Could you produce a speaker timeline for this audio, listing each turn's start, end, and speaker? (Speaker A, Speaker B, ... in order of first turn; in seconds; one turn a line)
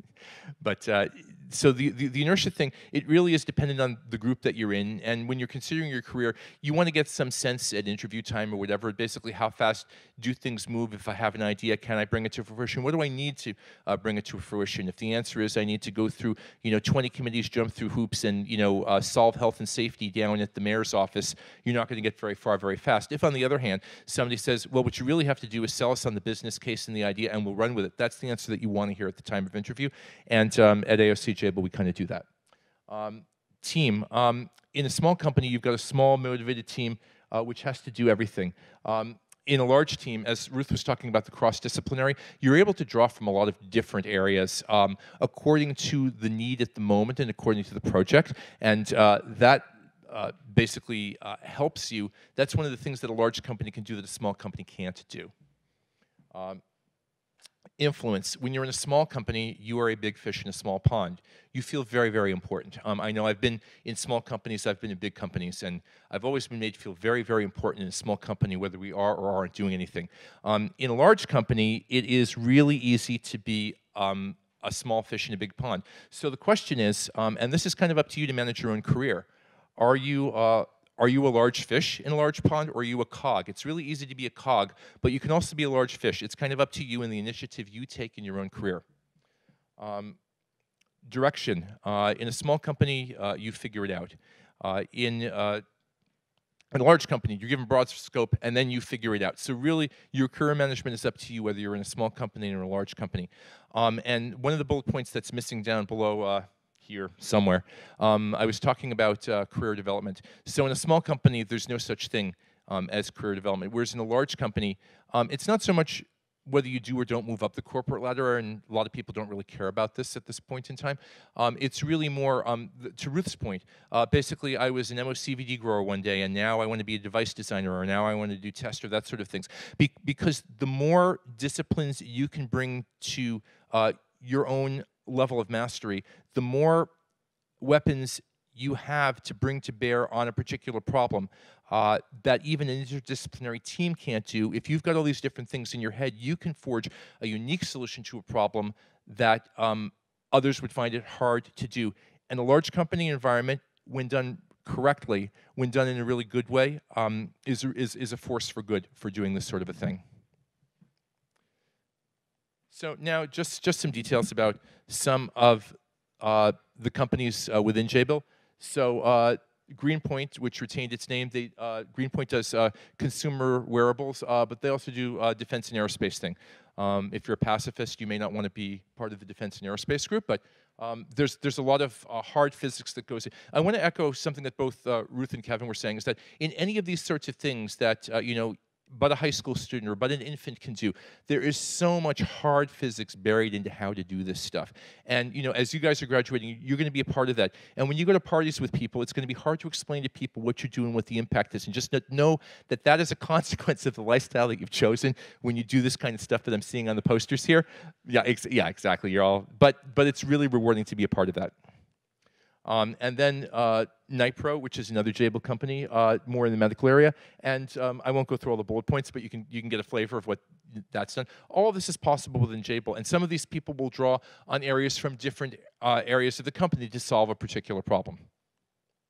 Speaker A: 0.6-32.3
Speaker A: 32.9-55.3
Speaker A: 56.3-56.6
Speaker A: 57.8-88.8
Speaker A: 89.8-90.2
Speaker A: 91.0-95.6
Speaker A: 96.7-136.9
Speaker A: 137.6-160.0
Speaker A: 162.7-211.5
Speaker A: 212.7-228.2